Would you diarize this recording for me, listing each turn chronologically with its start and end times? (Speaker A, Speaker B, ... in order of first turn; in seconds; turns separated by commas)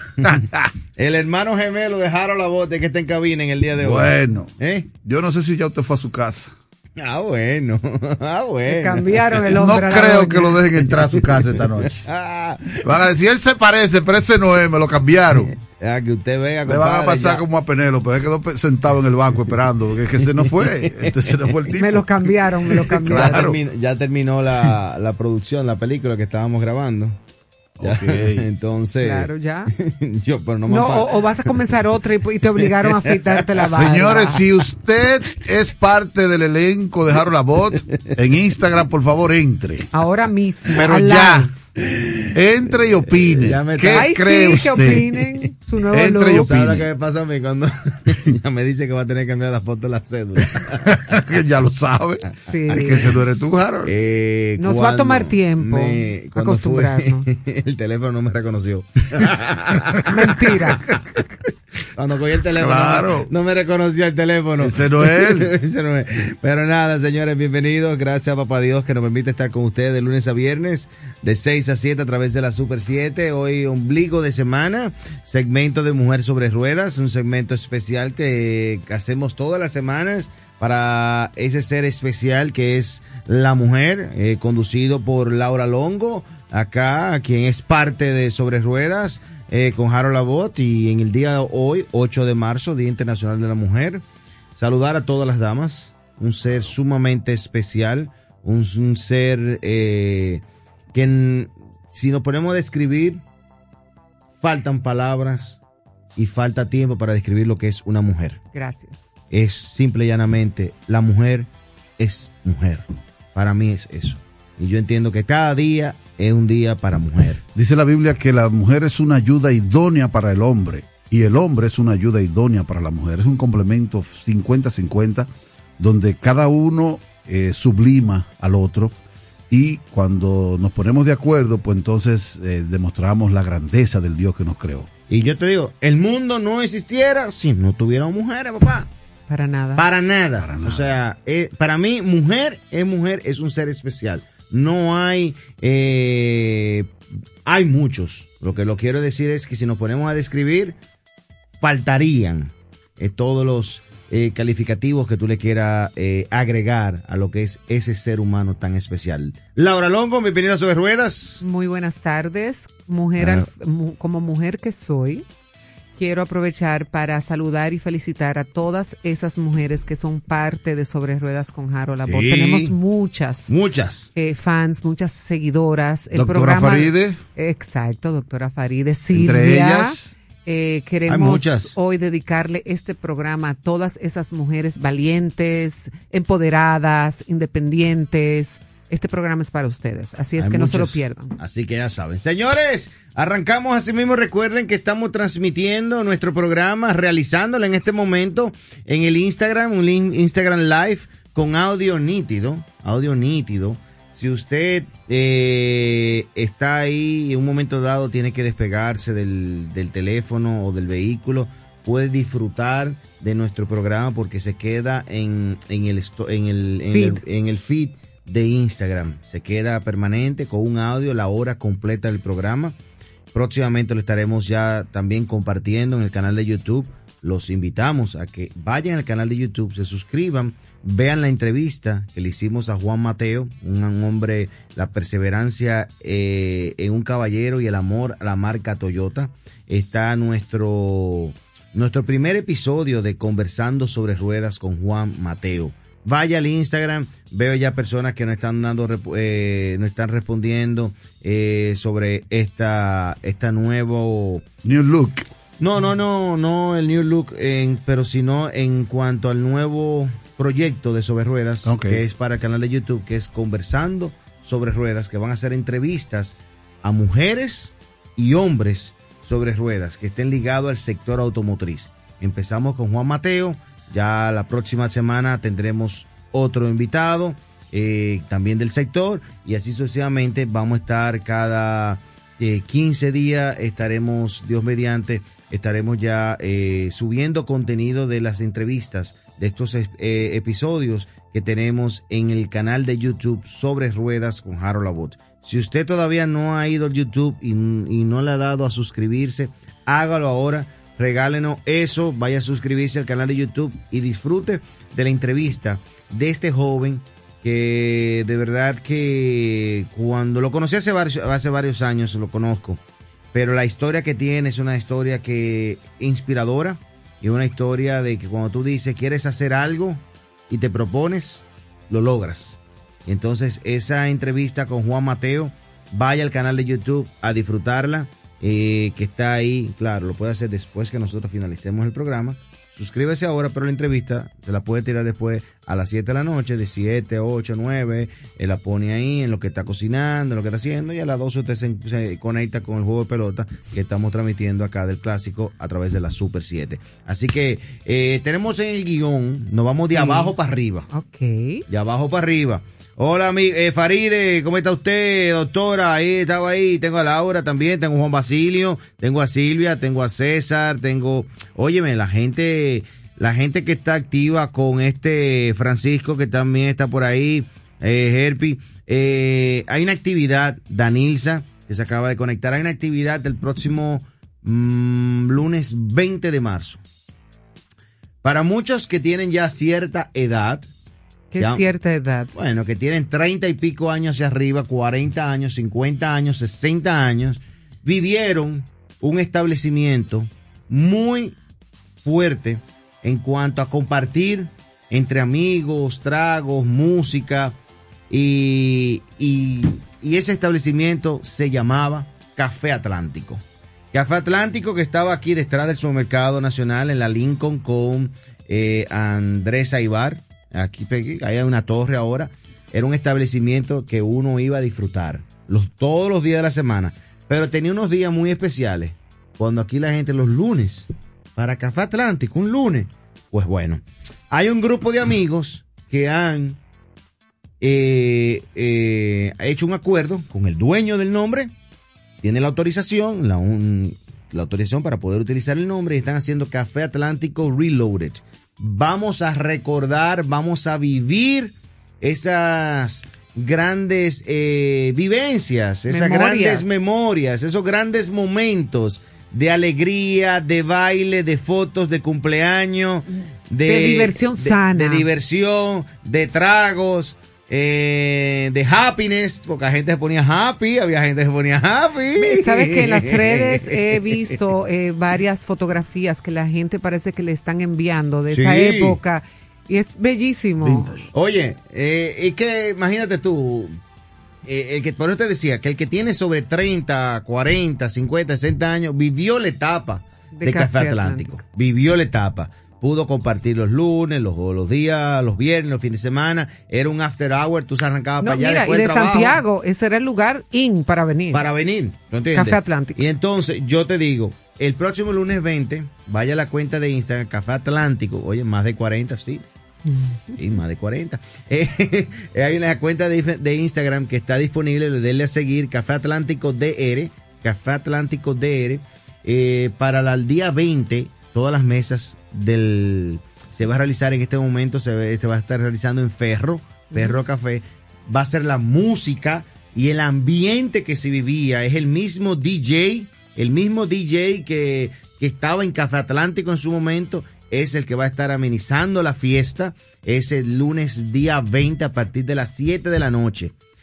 Speaker A: 0.2-0.7, Speaker B: 1.0-4.9, Speaker A: 3.8-4.5, Speaker A: 5.0-6.5, Speaker B: 7.0-9.7, Speaker C: 8.7-10.6, Speaker A: 9.5-12.0, Speaker B: 11.2-12.8, Speaker A: 12.8-15.5, Speaker B: 15.6-17.4, Speaker A: 16.6-23.6, Speaker B: 20.4-21.7, Speaker C: 21.8-23.5, Speaker B: 23.1-27.1, Speaker A: 27.8-28.5, Speaker B: 27.8-31.8, Speaker C: 29.0-29.7, Speaker C: 30.7-34.4, Speaker B: 32.6-33.4, Speaker A: 33.6-39.9, Speaker C: 39.9-41.5, Speaker A: 40.7-41.5, Speaker B: 41.8-45.5, Speaker A: 42.3-45.1, Speaker C: 43.9-46.5, Speaker A: 45.9-46.9, Speaker B: 46.2-51.2, Speaker A: 50.8-53.9, Speaker C: 52.5-53.0, Speaker B: 53.8-60.1, Speaker C: 54.6-57.2, Speaker C: 60.1-60.9, Speaker B: 61.9-94.0, Speaker A: 62.6-63.3, Speaker A: 64.6-65.5, Speaker B: 94.6-100.4, Speaker B: 100.9-103.2, Speaker B: 104.4-105.6, Speaker B: 106.2-108.4, Speaker C: 108.5-109.0, Speaker B: 109.3-117.4, Speaker A: 117.5-128.9, Speaker A: 129.5-134.9, Speaker B: 135.1-138.9, Speaker C: 139.3-139.8, Speaker B: 139.8-146.9, Speaker A: 140.4-140.9, Speaker B: 147.4-150.8, Speaker B: 151.6-161.4, Speaker C: 161.4-165.2, Speaker B: 163.2-163.5, Speaker C: 166.0-173.5, Speaker B: 172.1-172.8, Speaker B: 173.5-174.1, Speaker C: 174.1-191.3, Speaker A: 176.1-177.2, Speaker A: 179.1-180.1, Speaker B: 181.1-181.7, Speaker B: 190.4-222.8, Speaker C: 216.9-217.2, Speaker B: 223.3-254.4, Speaker A: 254.6-255.3, Speaker B: 255.6-312.8, Speaker A: 261.6-262.0, Speaker B: 313.3-350.9, Speaker C: 349.9-350.3, Speaker C: 350.9-351.6, Speaker B: 351.7-376.8, Speaker B: 378.2-380.7, Speaker C: 381.3-382.3, Speaker B: 381.4-381.6, Speaker B: 382.3-391.4, Speaker B: 392.0-397.5, Speaker B: 398.1-403.4, Speaker B: 403.9-426.6, Speaker B: 427.6-431.5, Speaker B: 432.2-464.3, Speaker C: 445.9-446.6, Speaker C: 453.6-455.1, Speaker C: 462.1-470.9, Speaker B: 468.3-469.0, Speaker A: 470.6-471.1, Speaker B: 471.1-473.8, Speaker B: 474.4-489.4, Speaker C: 480.3-481.4, Speaker C: 488.2-491.4, Speaker B: 491.3-499.4, Speaker C: 492.3-493.0, Speaker C: 499.9-500.1, Speaker B: 500.4-533.5